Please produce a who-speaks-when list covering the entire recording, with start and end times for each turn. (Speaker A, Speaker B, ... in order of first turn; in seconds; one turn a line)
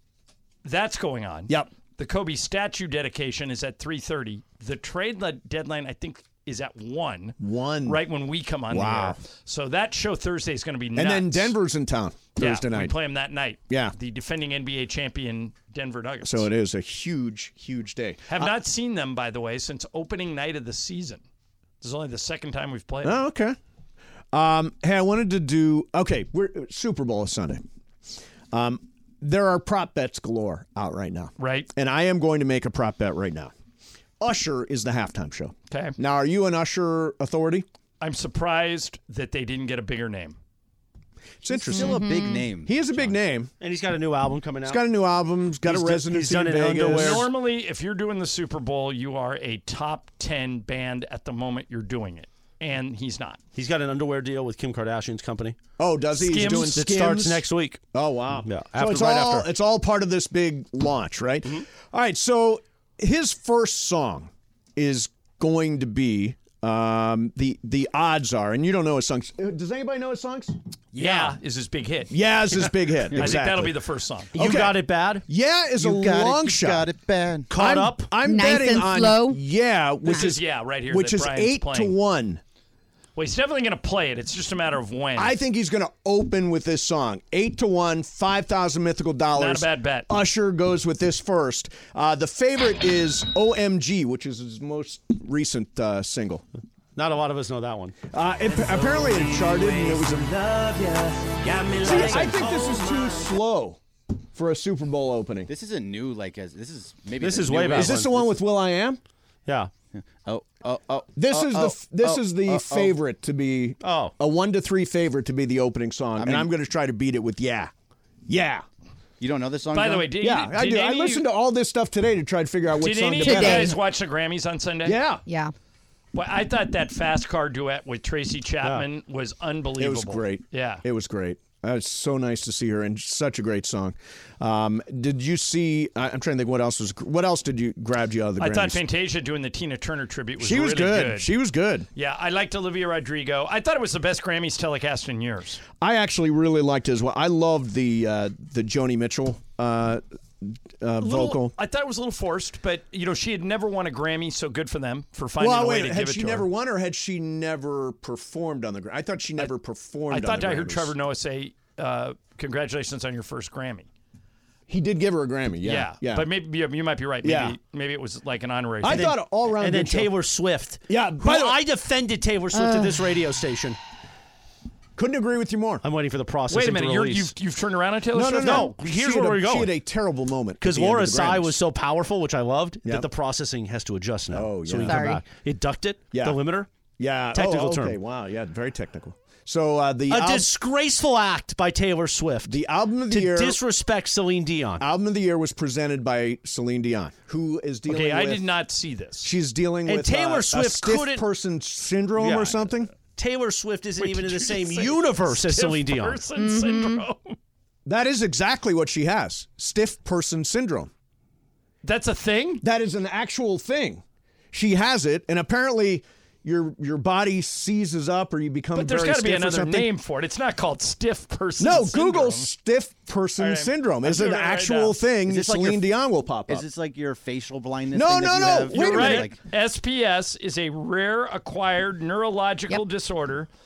Speaker A: 0.6-11.5
Speaker B: 7.4-8.0
Speaker B: 8.7-9.2
Speaker B: 10.9-12.9
Speaker A: 12.4-16.5
Speaker B: 13.7-13.9
Speaker B: 16.2-18.5
Speaker A: 18.3-21.2
Speaker A: 21.8-23.2
Speaker B: 23.0-23.6
Speaker B: 24.3-27.6
Speaker B: 28.5-33.5
Speaker A: 31.4-31.7
Speaker B: 34.2-37.6
Speaker A: 38.0-40.4
Speaker B: 41.4-42.0
Speaker C: 41.7-43.1
Speaker D: 41.7-42.5
Speaker B: 42.6-43.5
Speaker E: 43.6-44.8
Speaker B: 44.6-47.3
Speaker E: 45.6-47.2
Speaker A: 46.9-53.4
Speaker E: 53.5-55.6
Speaker B: 55.8-71.2
Speaker A: 56.2-56.8
Speaker E: 56.3-57.8
Speaker E: 58.4-59.5
Speaker A: 70.9-72.1
Speaker B: 72.1-73.7
Speaker A: 73.1-74.3
Speaker E: 74.3-75.2
Speaker B: 74.3-76.9
Speaker C: 75.8-77.5
Speaker E: 77.5-78.1
Speaker B: 77.5-82.4
Speaker D: 78.2-79.4
Speaker A: 80.0-81.9
Speaker A: 83.2-85.3
Speaker B: 85.2-96.4
Speaker A: 89.3-90.1
Speaker E: 97.0-98.0
Speaker B: 98.1-100.3
Speaker A: 98.9-99.5
Speaker C: 101.6-102.8
Speaker A: 101.8-102.5
Speaker B: 101.8-103.8
Speaker B: 104.3-105.5
Speaker C: 105.5-108.3
Speaker E: 107.2-108.2
Speaker B: 107.7-109.0
Speaker E: 109.5-109.7
Speaker C: 109.9-112.9
Speaker B: 111.2-117.7
Speaker E: 113.8-114.1
Speaker C: 116.2-116.5
Speaker B: 118.3-118.7
Speaker C: 119.2-120.1
Speaker A: 119.7-121.2
Speaker B: 120.2-123.8
Speaker A: 122.7-125.0
Speaker D: 123.2-123.8
Speaker B: 124.8-125.2
Speaker D: 125.2-125.5
Speaker A: 126.1-130.8
Speaker B: 129.8-138.8
Speaker A: 138.4-141.3
Speaker B: 140.4-141.9
Speaker A: 141.9-145.6
Speaker B: 145.8-151.5
Speaker A: 151.0-156.5
Speaker B: 155.4-160.9
Speaker A: 160.1-163.9
Speaker B: 164.7-166.3
Speaker A: 165.6-169.2
Speaker B: 167.2-167.6
Speaker B: 168.8-170.1
Speaker E: 168.9-173.8
Speaker B: 170.9-171.6
Speaker B: 174.9-175.8
Speaker E: 175.8-177.3
Speaker A: 176.5-178.7
Speaker B: 178.1-181.6
Speaker E: 178.4-179.7
Speaker E: 180.6-186.7
Speaker B: 184.3-185.2
Speaker D: 184.8-185.2
Speaker B: 186.1-186.4
Speaker B: 187.0-190.5
Speaker E: 187.3-188.0
Speaker E: 190.1-194.8
Speaker B: 192.4-193.6
Speaker B: 194.8-198.5
Speaker A: 197.9-199.3
Speaker B: 199.2-202.9
Speaker E: 199.8-201.2
Speaker E: 202.2-206.2
Speaker A: 204.0-207.3
Speaker D: 206.4-207.0
Speaker B: 207.8-210.9
Speaker A: 211.8-212.6
Speaker B: 212.6-219.9
Speaker A: 218.7-222.5
Speaker B: 221.6-226.6
Speaker A: 223.4-225.0
Speaker C: 225.3-225.9
Speaker C: 226.5-229.4
Speaker B: 227.9-229.3
Speaker A: 228.7-233.5